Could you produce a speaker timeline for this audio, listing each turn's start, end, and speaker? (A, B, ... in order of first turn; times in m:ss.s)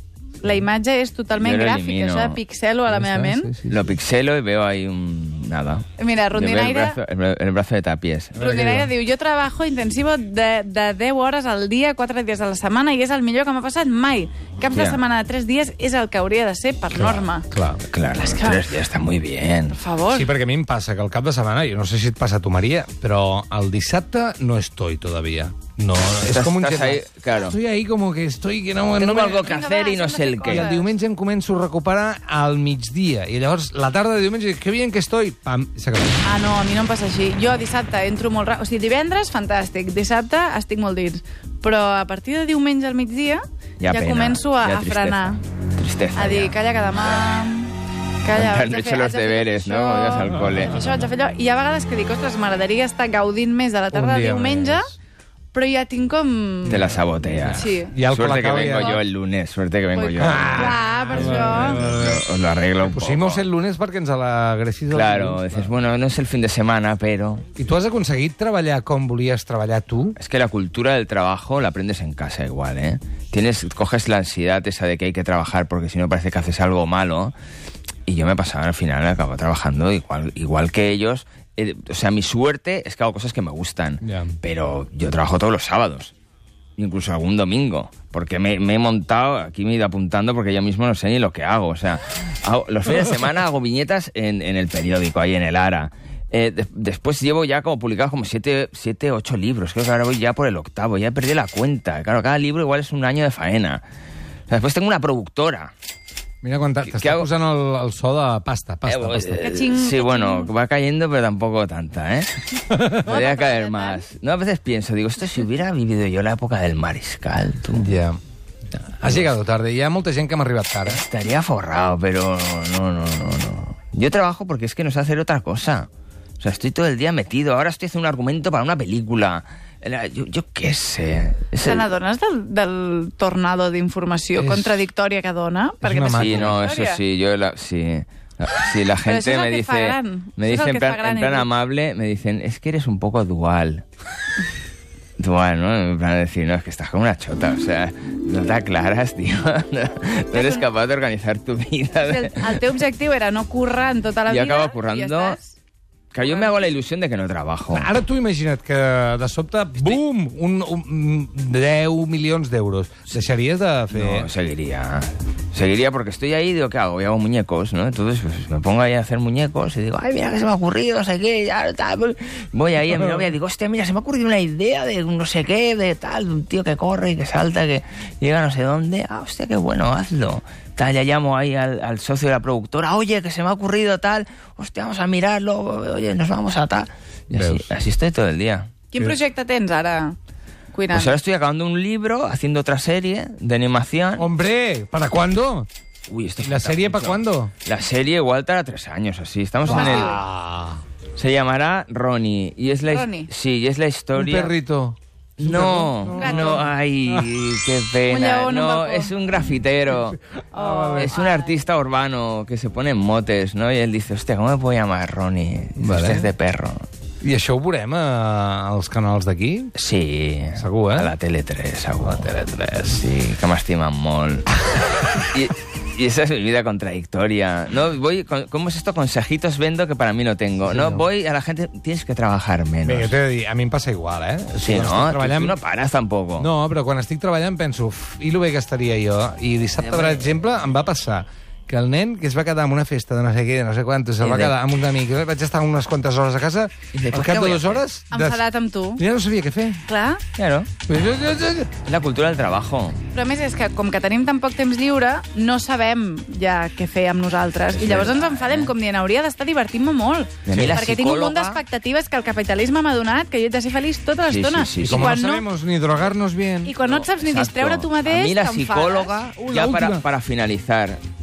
0:00.4-0:03.5 A
0:01.4-0:02.4 B
0:02.9-0:04.0 C
0:03.7-0:08.5 B
0:06.0-0:07.0 A
0:08.4-0:08.9 C
0:08.4-0:17.5 A
0:14.7-0:15.0 B
0:16.9-0:17.8 C
0:17.9-0:19.8 B
0:18.2-0:18.7 A
0:19.7-0:20.3 A
0:20.1-0:29.6 C
0:26.2-0:27.6 B
0:29.0-0:30.7 B
0:29.4-0:30.9 A
0:30.5-0:36.2 C
0:36.2-0:45.4 A
0:43.8-0:46.6 B
0:46.1-0:54.9 A
0:48.3-0:50.8 B
0:53.9-0:54.9 C
0:55.5-0:56.8 A
0:56.7-1:03.4 B
0:56.7-0:59.0 C
0:57.6-0:58.0 A
0:59.9-1:01.8 A
1:00.2-1:02.2 C
1:02.8-1:05.7 C
1:04.9-1:07.4 B
1:07.6-1:10.2 C
1:10.2-1:17.3 B
1:18.1-1:26.1 B
1:24.0-1:24.4 C
1:26.8-1:43.8 B
1:44.5-1:45.7 B
1:46.4-1:49.4 C
1:46.8-1:47.3 B
1:48.8-1:57.9 B
1:49.4-1:50.5 A
1:52.7-1:53.1 C
1:53.0-1:54.0 A
1:57.7-1:58.2 C
1:59.0-2:01.0 C
1:59.1-1:59.3 B
2:00.9-2:05.9 B
2:06.4-2:11.9 B
2:11.6-2:17.0 A
2:14.4-2:14.8 C
2:15.8-2:16.6 C
2:16.1-2:23.8 B
2:19.0-2:21.5 A
2:25.2-2:32.8 B
2:30.3-2:30.7 A
2:32.0-2:35.5 A
2:34.3-2:35.4 B
2:36.1-2:37.9 B
2:36.2-2:36.6 A
2:37.7-2:44.3 C
2:43.9-3:08.7 B
3:07.3-3:07.7 C
3:08.9-3:10.2 A
3:10.7-3:11.2 A
3:10.9-3:14.3 B
3:14.2-3:15.7 C
3:16.1-3:20.2 B
3:16.4-3:17.5 C
3:19.6-3:20.8 C
3:19.7-3:20.2 A
3:21.2-3:24.5 B
3:22.8-3:23.3 A
3:24.2-3:27.3 C
3:25.4-3:30.2 B
3:26.2-3:26.6 A
3:28.1-3:29.1 A
3:30.5-3:31.1 C
3:30.5-3:31.6 A
3:31.0-3:36.8 B
3:35.8-3:36.3 C
3:37.2-3:39.7 C
3:39.8-3:44.6 B
3:40.6-3:41.1 C
3:45.2-3:53.2 B
3:50.6-3:51.1 C
3:52.8-3:55.6 C
3:54.6-3:56.5 B
3:56.4-4:08.4 C
3:59.8-4:00.4 B
4:04.2-4:04.6 B
4:06.9-4:07.8 B
4:08.1-4:09.0 A
4:09.0-4:09.8 C
4:09.8-4:10.2 A
4:10.4-4:10.7 B
4:10.9-4:11.7 C
4:11.8-4:13.0 B
4:13.1-4:25.4 A
4:17.7-4:18.7 B
4:20.4-4:21.6 B
4:20.5-4:20.8 C
4:24.3-4:25.2 B
4:24.8-4:26.8 C
4:26.6-4:29.2 A
4:26.8-4:31.0 B
4:29.5-4:30.0 C